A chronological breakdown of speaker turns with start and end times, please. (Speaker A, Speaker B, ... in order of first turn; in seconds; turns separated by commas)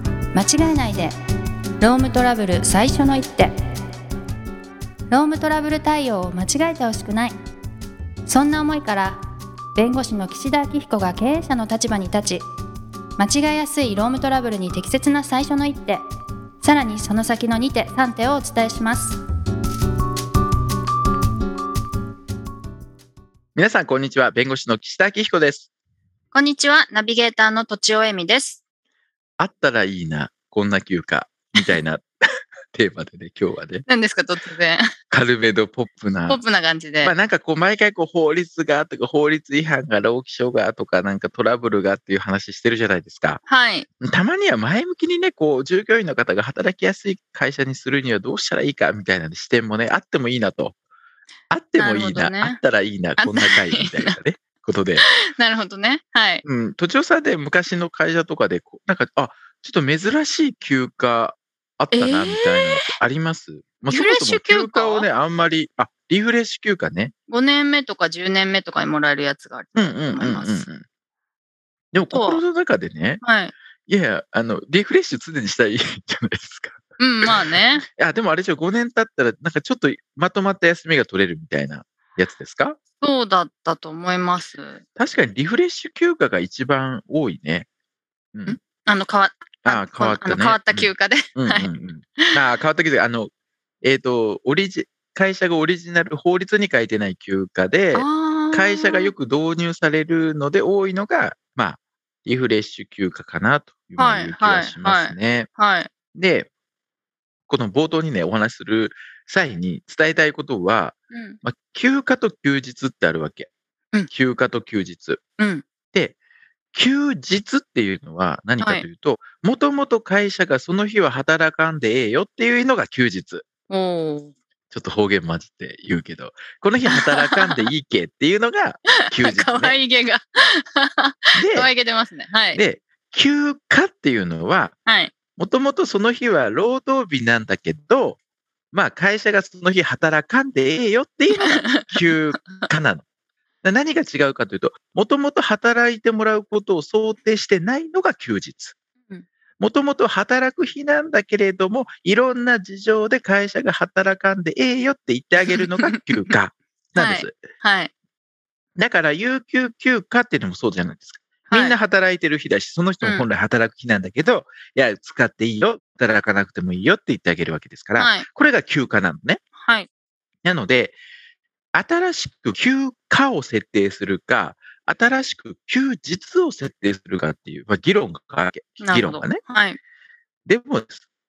Speaker A: 0.3-1.1, Speaker A: 1.8-3.5, Speaker A: 5.1-7.4, Speaker A: 8.2-9.2, Speaker A: 9.7-12.4, Speaker A: 13.2-16.0, Speaker A: 16.6-19.2, Speaker B: 23.5-25.7, Speaker A: 26.3-28.6, Speaker B: 29.4-32.1, Speaker B: 32.7-33.9, Speaker A: 33.9-34.9, Speaker B: 35.1-36.4, Speaker A: 36.3-37.1, Speaker B: 37.0-43.4, Speaker A: 43.5-43.9, Speaker B: 44.0-50.7, Speaker B: 51.5-55.1, Speaker A: 51.8-52.6, Speaker A: 53.2-54.2, Speaker A: 55.0-56.4, Speaker B: 56.4-67.1, Speaker A: 61.9-63.0, Speaker A: 63.9-65.1, Speaker A: 67.3-70.7, Speaker B: 69.7-70.8, Speaker B: 71.9-73.2, Speaker A: 72.1-72.4, Speaker A: 73.2-73.5, Speaker B: 73.8-82.8, Speaker A: 77.0-77.8, Speaker A: 83.0-84.8, Speaker B: 85.0-87.7, Speaker A: 88.5-92.3, Speaker B: 89.6-93.3, Speaker B: 93.8-105.5, Speaker A: 97.9-99.1, Speaker A: 104.0-105.9, Speaker B: 106.1-106.5, Speaker B: 107.5-113.5, Speaker A: 111.1-111.4, Speaker B: 114.1-115.2, Speaker A: 115.4-115.6, Speaker B: 116.7-123.5, Speaker A: 118.6-118.9, Speaker A: 123.7-124.3, Speaker B: 124.7-129.8, Speaker A: 126.8-127.7, Speaker A: 128.9-132.6, Speaker B: 131.3-131.7, Speaker B: 132.5-134.7, Speaker A: 134.8-135.1, Speaker B: 135.3-138.2, Speaker B: 138.7-143.0, Speaker A: 141.3-142.0, Speaker B: 143.6-148.8, Speaker B: 149.6-157.4, Speaker A: 155.5-156.2, Speaker A: 157.0-157.9, Speaker B: 158.8-169.4, Speaker A: 161.5-161.8, Speaker A: 163.0-163.3, Speaker A: 168.0-168.2, Speaker A: 169.6-169.9, Speaker B: 170.4-171.0, Speaker B: 171.7-179.4, Speaker A: 178.8-179.8, Speaker B: 180.4-181.0